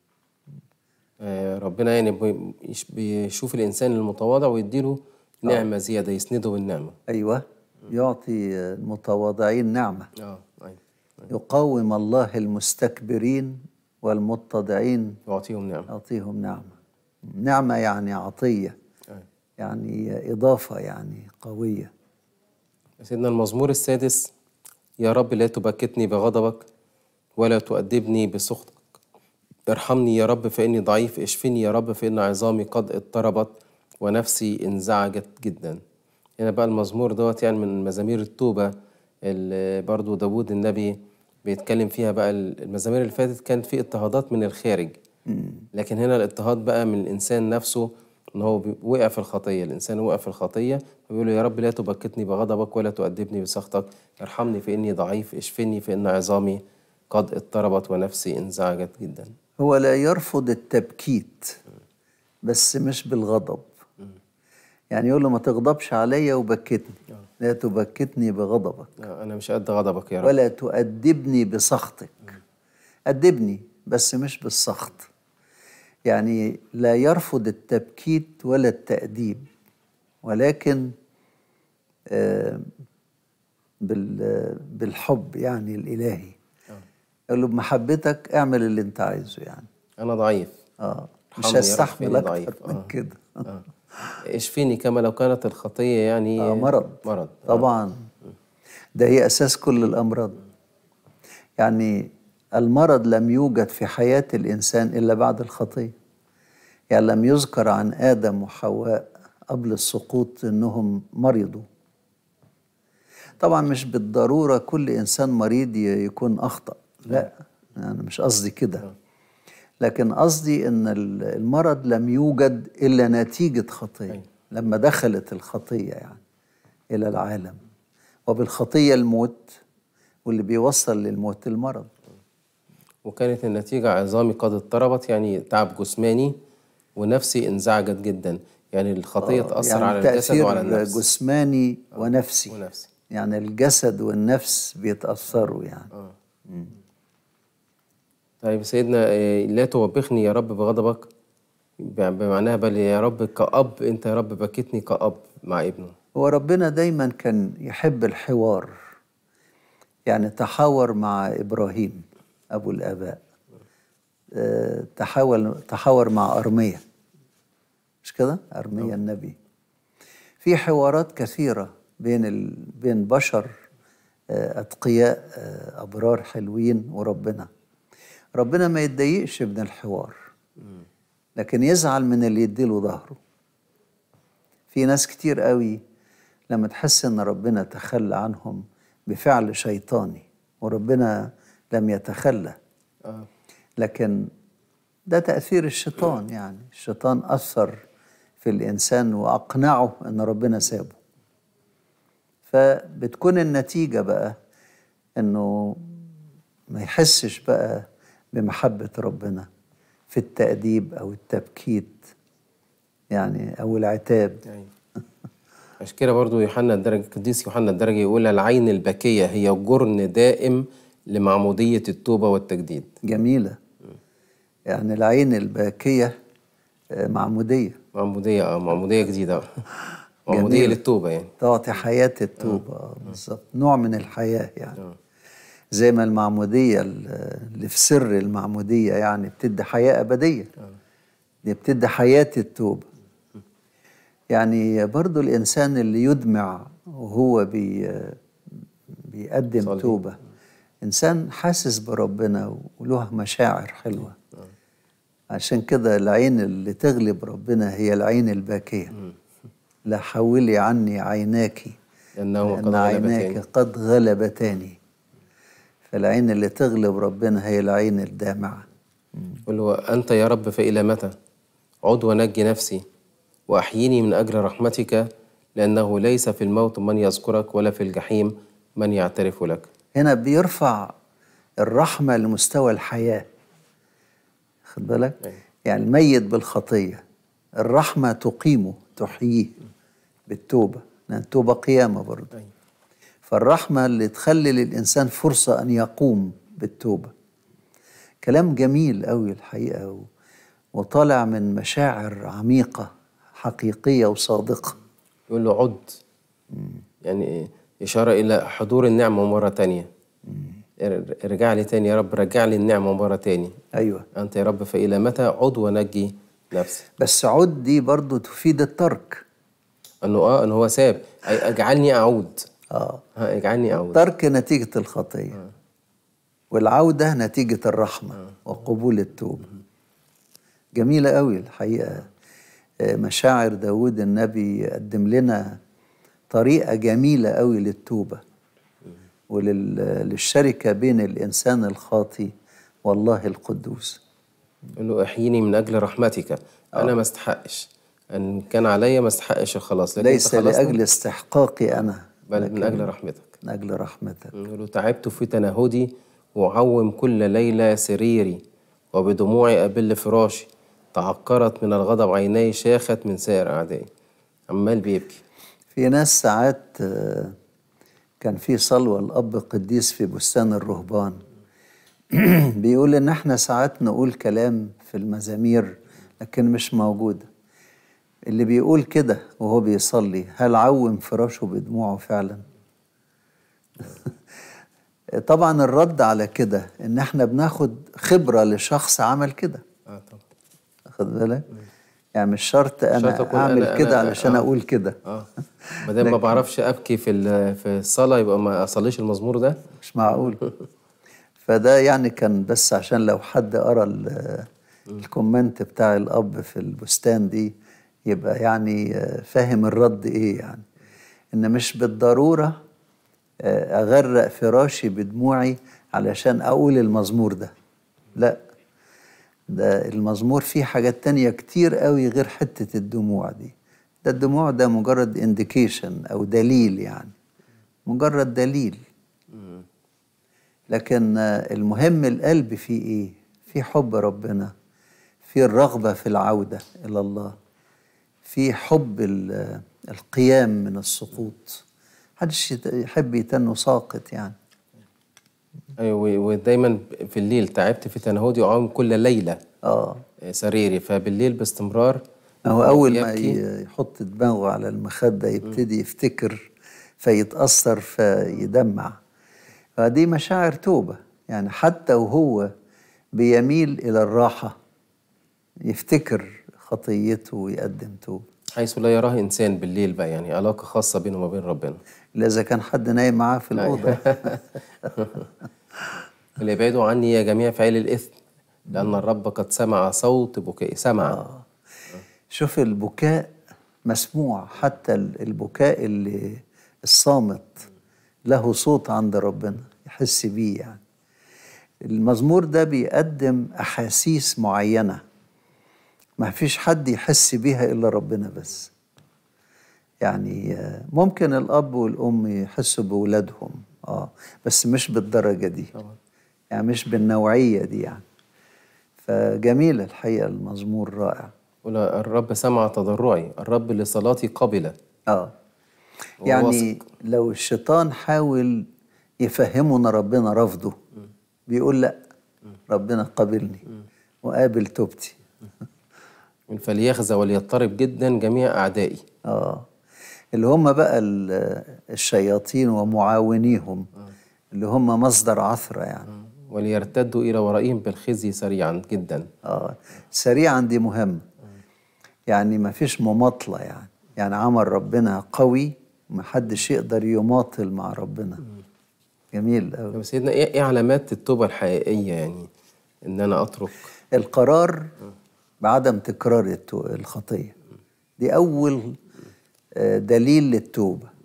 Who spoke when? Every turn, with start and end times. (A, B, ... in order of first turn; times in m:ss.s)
0:01.2-0:07.0 A
0:07.1-0:10.1 B
0:10.2-0:11.3 A
0:11.3-0:15.2 B
0:15.3-0:15.9 A
0:15.9-0:18.8 B
0:19.6-0:21.9 B
0:23.0-0:24.3 A
0:25.0-0:26.7 A
0:27.4-0:28.8 A
0:29.7-0:35.8 A
0:36.4-0:38.7 A
0:39.2-0:45.0 A
0:45.3-0:45.7 B
0:45.7-0:59.3 A
0:59.6-1:01.6 B
1:02.4-1:03.7 B
1:04.9-1:08.9 B
1:09.0-1:10.4 A
1:10.2-1:12.4 B
1:13.1-1:15.1 B
1:16.1-1:19.5 B
1:20.2-1:20.9 B
1:22.1-1:22.7 B
1:23.8-1:26.4 B
1:27.3-1:29.7 B
1:30.0-1:30.5 A
1:30.8-1:33.4 B
1:31.4-1:32.9 A
1:34.2-1:37.7 A
1:36.4-1:38.0 B
1:39.0-1:40.4 B
1:41.6-1:45.9 B
1:46.9-1:51.7 B
1:53.4-1:58.9 B
1:59.8-2:06.2 B
2:06.9-2:07.6 B
2:08.3-2:09.6 B
2:10.3-2:11.9 B
2:13.0-2:16.4 A
2:17.0-2:21.0 A
2:19.2-2:22.6 B
2:22.0-2:22.9 A
2:23.1-2:25.9 B
2:28.4-2:31.1 A
2:31.8-2:35.9 A
2:36.1-2:38.8 B
2:40.1-2:43.2 B
2:44.4-2:46.8 B
2:48.0-2:49.4 B
2:50.4-2:53.5 B
2:54.3-2:57.5 B
2:58.4-3:00.2 B
3:01.4-3:03.2 B
3:04.7-3:05.8 B
3:06.5-3:12.6 B
3:13.8-3:14.3 B
3:15.1-3:17.8 B
3:18.4-3:21.0 B
3:22.5-3:24.4 B
3:25.2-3:26.0 B
3:26.7-3:29.5 B
3:30.1-3:32.1 B
3:33.1-3:34.4 B
3:35.8-3:42.9 A
3:43.0-3:43.6 B
3:44.7-3:46.1 B
3:46.9-3:47.8 B
3:47.9-3:49.6 A
3:50.3-3:51.3 A
3:50.3-3:50.8 B
3:51.4-3:54.8 B
3:55.8-4:00.5 B
4:01.4-4:02.9 B
4:04.3-4:08.2 B
4:09.0-4:10.2 B
4:09.6-4:10.0 A
4:10.8-4:14.2 B
4:15.3-4:18.9 B
4:19.9-4:21.8 B
4:22.2-4:23.4 A
4:22.4-4:24.8 B
4:25.9-4:28.6 B
4:29.5-4:31.1 A
4:31.8-4:32.8 A
4:33.5-4:39.7 A
4:40.0-4:41.0 B
4:41.6-4:43.3 B
4:44.7-4:47.0 B
4:47.6-4:49.6 B
4:50.3-4:52.3 B
4:53.3-4:57.1 B
4:58.2-5:00.1 B
5:00.8-5:04.8 B
5:05.3-5:06.0 A
5:06.5-5:06.8 B
5:07.0-5:09.9 A
5:10.3-5:10.6 B
5:10.8-5:13.6 A
5:13.8-5:14.1 B
5:14.1-5:16.8 A
5:17.0-5:19.2 B
5:20.0-5:22.4 A
5:22.7-5:23.0 B
5:23.2-5:24.0 A
5:23.9-5:25.4 B
5:26.5-5:29.5 B
5:30.8-5:32.1 B
5:32.8-5:35.6 B
5:36.3-5:38.2 B
5:39.3-5:42.3 B
5:42.8-5:44.0 B
5:44.8-5:50.8 A
5:50.0-5:52.9 B
5:52.3-5:53.3 A
5:53.4-5:54.3 B
5:54.4-5:58.4 A
5:58.9-6:03.9 A
6:04.5-6:05.2 A
6:05.8-6:07.4 B
6:08.2-6:11.2 B
6:12.1-6:17.3 B
6:18.3-6:22.4 B
6:25.2-6:29.6 B
6:29.9-6:30.2 A
6:30.9-6:31.5 B
6:32.1-6:35.0 B
6:32.9-6:34.4 A
6:35.6-6:36.4 B
6:35.8-6:39.6 A
6:39.8-6:40.4 B
6:41.4-6:44.5 B
6:45.0-6:47.6 B
6:48.1-6:50.6 B
6:51.3-6:52.6 B
6:53.4-6:57.5 B
6:58.1-6:58.4 B
6:59.5-7:07.1 B
7:07.9-7:08.8 B
7:09.4-7:09.6 A
7:10.7-7:14.5 B
7:15.3-7:17.4 B
7:18.3-7:21.6 B
7:22.2-7:24.4 B
7:25.8-7:29.4 A
7:29.6-7:30.0 B
7:30.2-7:32.0 A
7:32.4-7:36.5 B
7:32.5-7:33.4 A
7:37.0-7:39.0 B
7:39.8-7:42.5 B
7:43.2-7:44.6 B
7:45.6-7:48.2 B
7:48.6-7:51.8 A
7:52.2-7:54.4 B
7:53.6-7:54.4 A
7:55.0-7:55.2 A
7:56.4-7:58.1 A
7:58.7-8:01.2 A
8:01.1-8:01.4 B
8:02.3-8:03.3 B
8:03.9-8:07.7 B
8:08.3-8:10.8 B
8:11.8-8:15.0 B
8:16.2-8:18.7 B
8:20.0-8:25.7 B
8:26.5-8:28.0 B
8:29.0-8:31.3 B
8:31.6-8:34.8 A
8:35.1-8:35.3 B
8:36.2-8:36.8 A
8:36.2-8:38.7 B
8:39.2-8:40.8 B
8:41.5-8:42.0 B
8:42.7-8:43.6 B
8:44.2-8:45.2 B
8:46.5-8:49.0 A
8:49.3-8:49.7 B
8:50.3-8:53.9 B
8:54.5-8:56.1 B
8:56.5-8:59.3 A
8:59.4-9:01.2 B
9:02.3-9:08.4 B
9:09.3-9:10.0 B
9:09.9-9:12.5 A
9:13.0-9:13.9 A
9:14.1-9:14.9 B
9:15.6-9:17.6 B
9:18.2-9:19.0 B
9:19.8-9:21.1 B